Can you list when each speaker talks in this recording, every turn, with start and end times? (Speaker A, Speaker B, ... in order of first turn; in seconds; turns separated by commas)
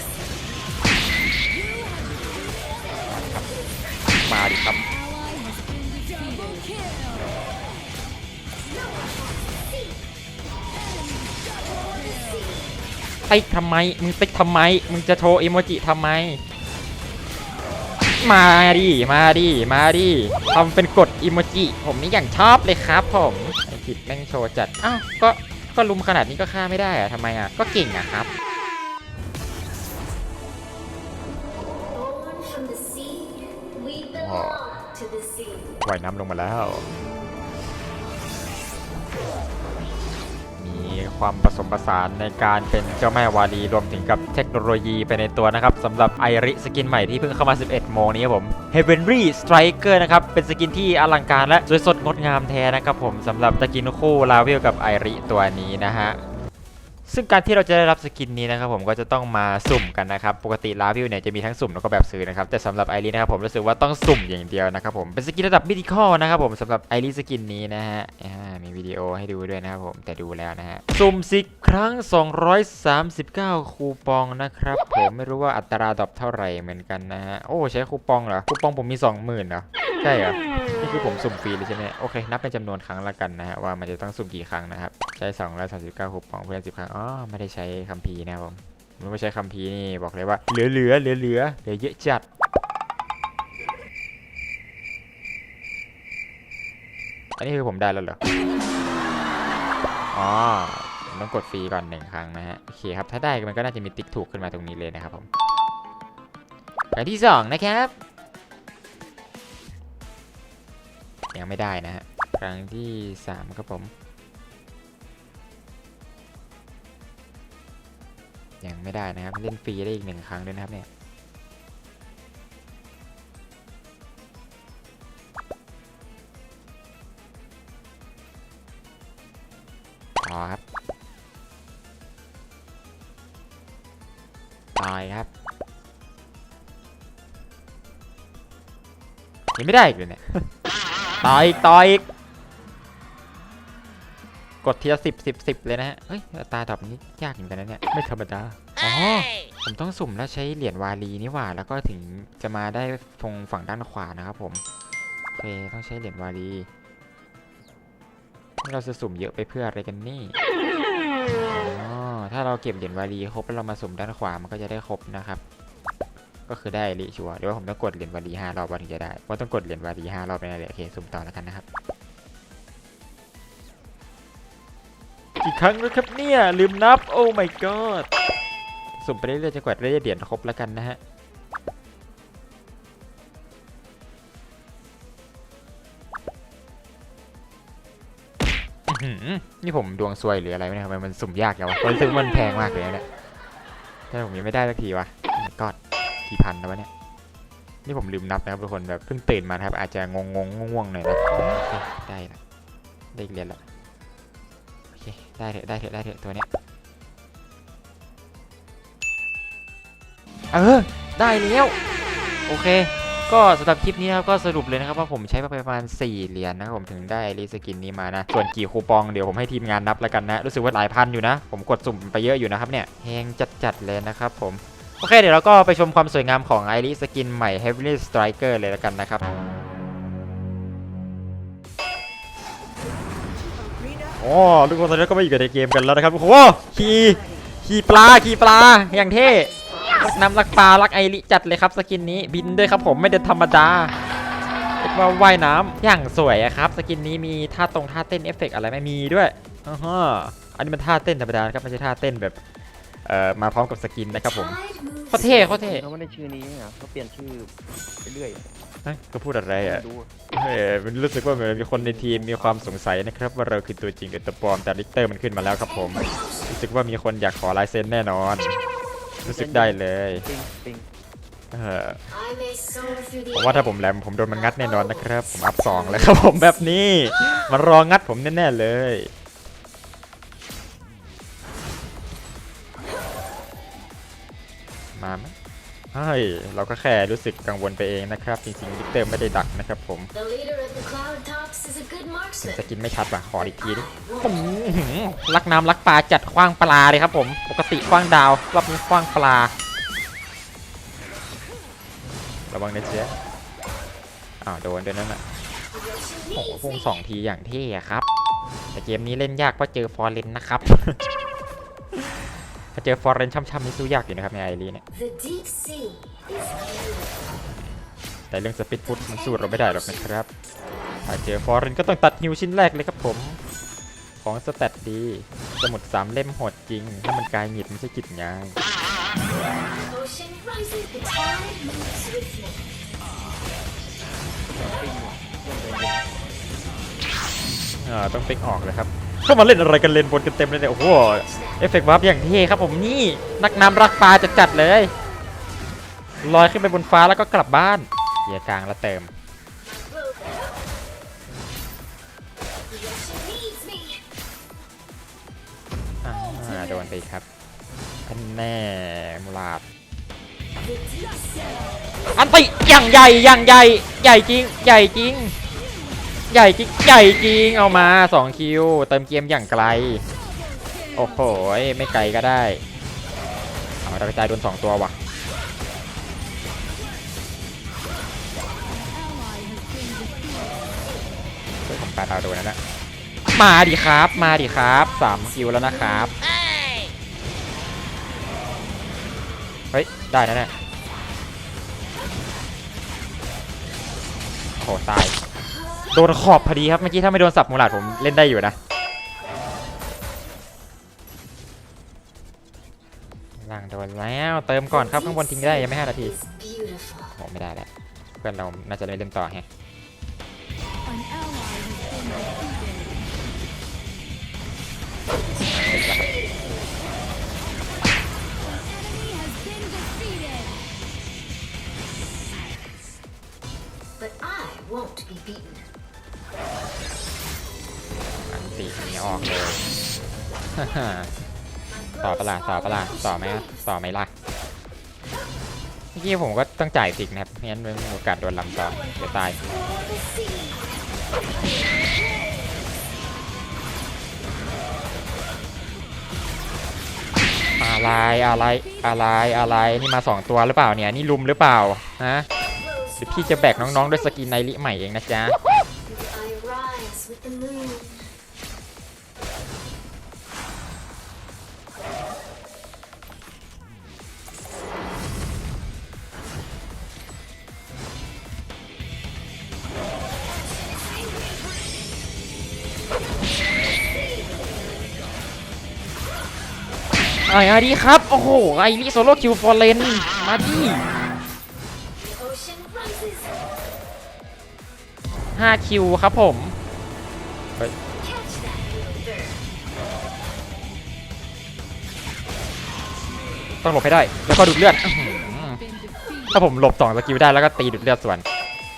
Speaker A: 1.5-2.4, Speaker B: 4.2-4.9, Speaker A: 5.0-7.0, Speaker C: 8.7-10.0, Speaker A: 11.1-12.3, Speaker C: 11.9-12.6, Speaker B: 13.3-16.4, Speaker B: 18.2-28.3, Speaker C: 31.9-35.6, Speaker B: 34.1-34.6, Speaker B: 35.8-36.9, Speaker B: 40.6-56.2, Speaker B: 57.1-92.2, Speaker B: 97.4-98.2, Speaker B: 100.1-105.3, Speaker B: 106.9-107.9, Speaker B: 111.3-113.9, Speaker B: 118.6-120.9, Speaker B: 130.2-130.6, Speaker B: 134.8-135.3, Speaker B: 139.5-140.5, Speaker B: 141.2-142.1, Speaker B: 144.6-154.6, Speaker B: 155.3-156.7, Speaker B: 158.6-160.4, Speaker B: 161.5-165.4, Speaker B: 166.5-171.6, Speaker B: 175.4-178.1, Speaker B: 179.0-181.0, Speaker B: 188.9-193.1, Speaker B: 194.1-196.9, Speaker B: 197.9-202.4, Speaker B: 203.1-203.6, Speaker B: 204.9-206.5, Speaker B: 210.5-211.8, Speaker B: 212.5-229.2, Speaker B: 234.2-243.9, Speaker B: 244.8-252.4, Speaker B: 253.1-254.6, Speaker C: 254.2-255.4, Speaker B: 255.1-255.8, Speaker D: 255.1-257.5, Speaker D: 258.0-258.5, Speaker B: 258.8-268.6, Speaker D: 259.6-260.1, Speaker D: 261.3-262.7, Speaker D: 269.2-270.9, Speaker B: 269.2-270.2, Speaker B: 271.5-272.0, Speaker C: 272.2-273.3, Speaker B: 273.3-279.1, Speaker B: 285.0-285.3, Speaker B: 285.9-290.1, Speaker C: 290.2-292.4, Speaker B: 292.4-299.5, Speaker C: 293.6-294.2, Speaker B: 302.5-303.1, Speaker B: 304.4-305.2, Speaker C: 305.7-306.7, Speaker B: 306.3-308.1, Speaker B: 308.7-311.0, Speaker B: 312.8-314.8, Speaker C: 314.9-317.4, Speaker B: 318.3-320.3, Speaker C: 319.0-320.1, Speaker B: 321.1-323.4, Speaker B: 324.2-328.6, Speaker C: 329.8-332.6, Speaker D: 334.6-336.1, Speaker B: 337.8-344.9, Speaker C: 341.2-341.6, Speaker B: 346.2-349.1, Speaker C: 349.7-350.5, Speaker C: 352.7-354.0, Speaker B: 356.0-357.3, Speaker B: 358.1-359.6, Speaker C: 360.6-361.8, Speaker B: 362.1-365.4, Speaker B: 366.3-370.0, Speaker A: 370.6-371.0, Speaker B: 370.9-372.6, Speaker B: 373.8-375.0, Speaker A: 378.9-380.6, Speaker B: 381.7-382.6, Speaker B: 383.4-386.1, Speaker B: 389.7-390.5, Speaker B: 394.6-395.2, Speaker C: 395.6-395.9, Speaker B: 395.9-398.6, Speaker B: 403.4-406.1, Speaker C: 406.1-407.1, Speaker B: 407.1-407.7, Speaker B: 408.2-409.5, Speaker A: 410.9-412.9, Speaker B: 415.5-416.1, Speaker A: 418.6-420.5, Speaker C: 424.0-425.6, Speaker B: 428.3-429.6, Speaker B: 430.6-431.1, Speaker C: 431.7-433.5, Speaker B: 432.0-434.1, Speaker B: 435.9-439.5, Speaker C: 438.8-440.8, Speaker B: 447.6-452.3, Speaker C: 452.6-453.1, Speaker B: 453.0-455.4, Speaker C: 455.9-458.0, Speaker B: 477.3-480.8, Speaker C: 482.0-483.3, Speaker B: 485.4-486.6, Speaker C: 488.0-489.4, Speaker B: 493.6-495.6, Speaker A: 495.0-496.3, Speaker B: 496.3-498.2